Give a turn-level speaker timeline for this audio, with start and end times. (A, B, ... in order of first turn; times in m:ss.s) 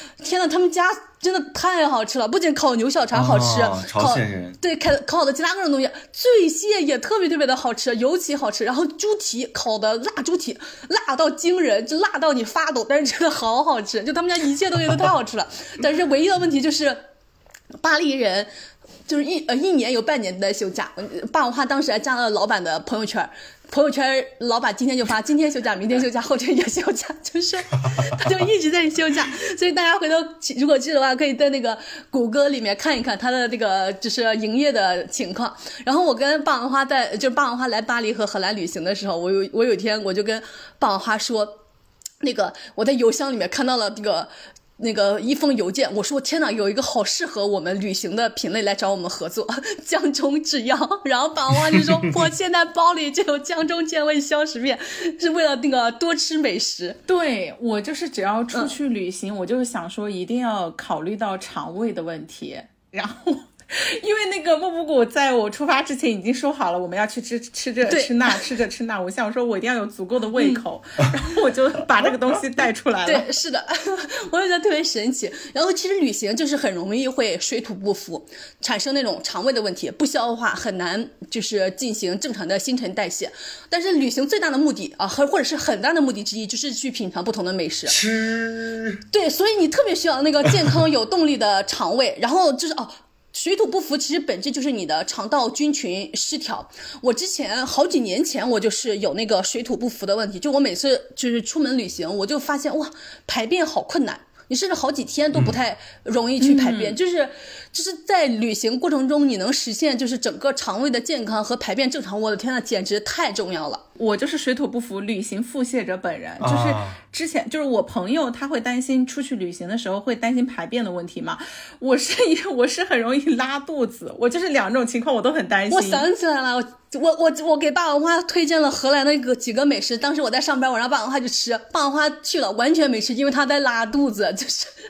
0:00.2-0:17.0 A
0:03.1-0:04.6 B
0:17.8-0:18.5 A
0:19.1-0:41.6 A
0:42.2-0:57.0 A
0:57.1-1:13.2 C
1:07.8-1:08.4 A
1:13.0-1:28.0 A
1:27.9-1:29.0 B
1:29.1-1:53.8 A
1:46.4-1:47.0 C
1:54.0-2:06.0 C
1:56.4-1:57.0 B
2:05.7-2:14.7 A